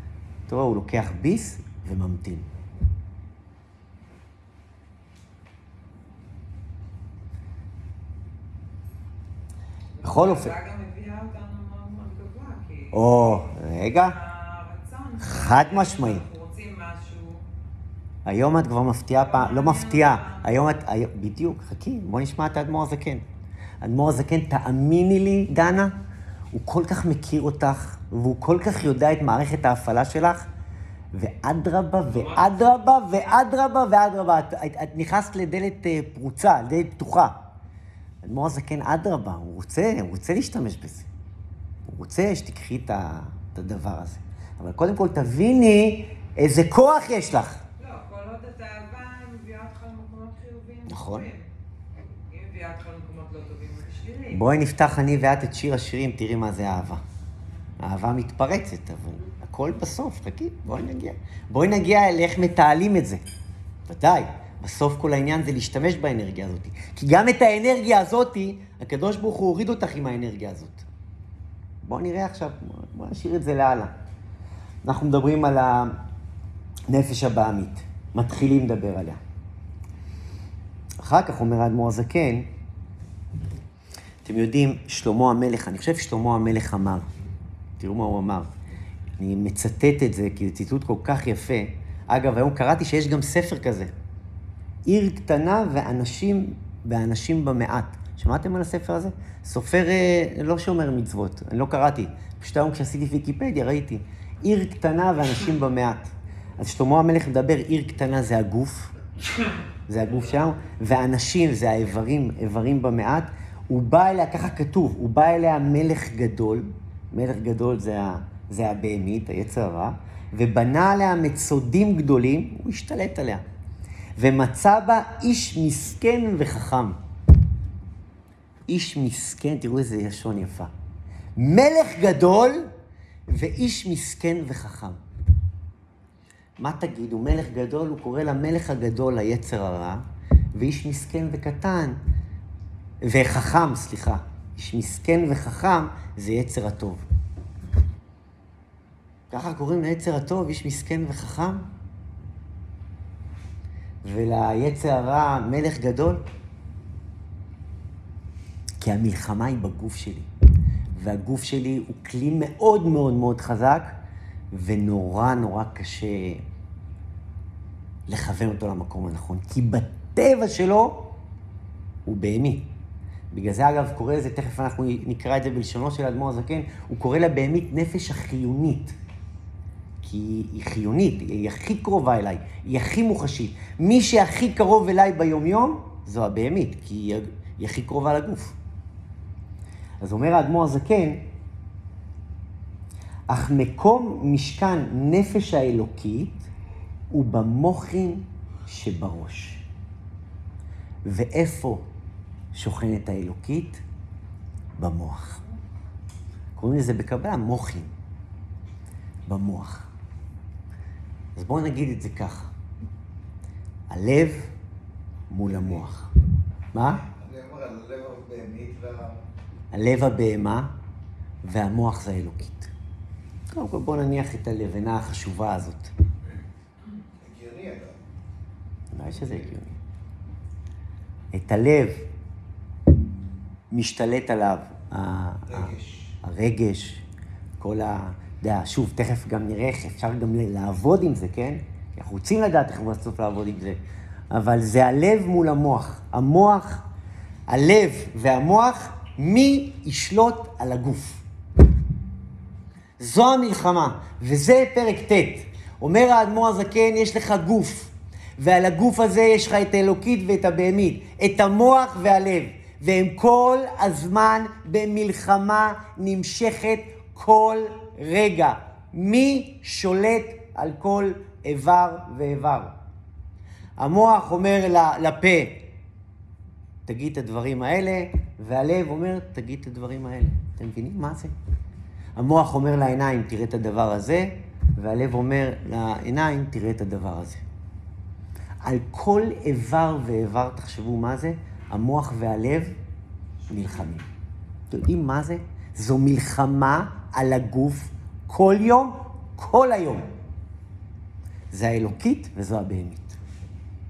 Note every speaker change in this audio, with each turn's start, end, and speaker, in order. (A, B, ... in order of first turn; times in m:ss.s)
0:00.5-0:02.5 A
0:10.0-0:17.4 B
0:10.0-0:10.5 A
0:12.9-0:14.2 A
0:15.2-0:16.2 A
0:18.2-0:23.2 A
0:19.2-0:20.6 B
0:23.8-0:26.0 A
0:26.5-0:30.5 A
0:31.1-0:37.4 A
0:38.2-0:41.1 A
0:41.9-0:47.6 A
0:47.8-0:51.5 B
0:50.9-0:51.3 A
0:52.3-0:54.4 B
0:54.3-0:57.0 A
0:57.8-1:03.2 A
1:03.9-1:10.8 A
1:11.8-1:13.9 A
1:14.8-1:16.0 A
1:16.9-1:19.2 A
1:21.0-1:22.5 A
1:24.2-1:27.1 A
1:27.8-1:28.5 A
1:29.2-1:33.9 A
1:34.9-1:48.9 A
1:49.9-2:03.4 A
2:04.2-2:07.0 A
2:08.7-2:10.7 A
2:11.4-2:12.7 A
2:13.3-2:15.0 A
2:16.6-2:22.0 A
2:23.0-2:27.0 A
2:29.3-2:31.7 A
2:34.0-2:36.2 A
2:38.8-2:40.3 A
2:41.0-2:44.0 A
2:44.5-2:46.4 A
2:48.1-2:51.1 A
2:52.1-2:52.7 A
2:53.3-2:59.0 A
3:00.0-3:08.6 A
3:10.0-3:11.2 A
3:13.3-3:16.5 A
3:17.1-3:19.6 A
3:21.0-3:21.9 A
3:22.5-3:23.8 A
3:24.8-3:25.4 A
3:26.6-3:27.9 A
3:29.3-3:29.9 A
3:31.4-3:32.5 A
3:33.9-3:34.5 A
3:35.3-3:36.1 A
3:36.7-3:37.0 A
3:37.0-3:39.2 C
3:39.7-3:40.7 A
3:41.4-3:42.7 A
3:43.5-3:45.9 A
3:47.2-3:48.0 C
3:48.9-3:49.8 A
3:51.3-3:52.1 A
3:53.7-3:57.0 A
3:55.5-3:56.0 C
3:57.6-4:03.8 A
4:04.3-4:06.8 A
4:07.5-4:11.2 A
4:13.0-4:32.7 A
4:33.8-4:35.6 A
4:36.9-4:41.3 A
4:42.2-4:47.4 A
4:48.6-4:52.8 A
4:53.5-4:54.1 A
4:54.7-5:00.1 A
5:01.5-5:03.2 A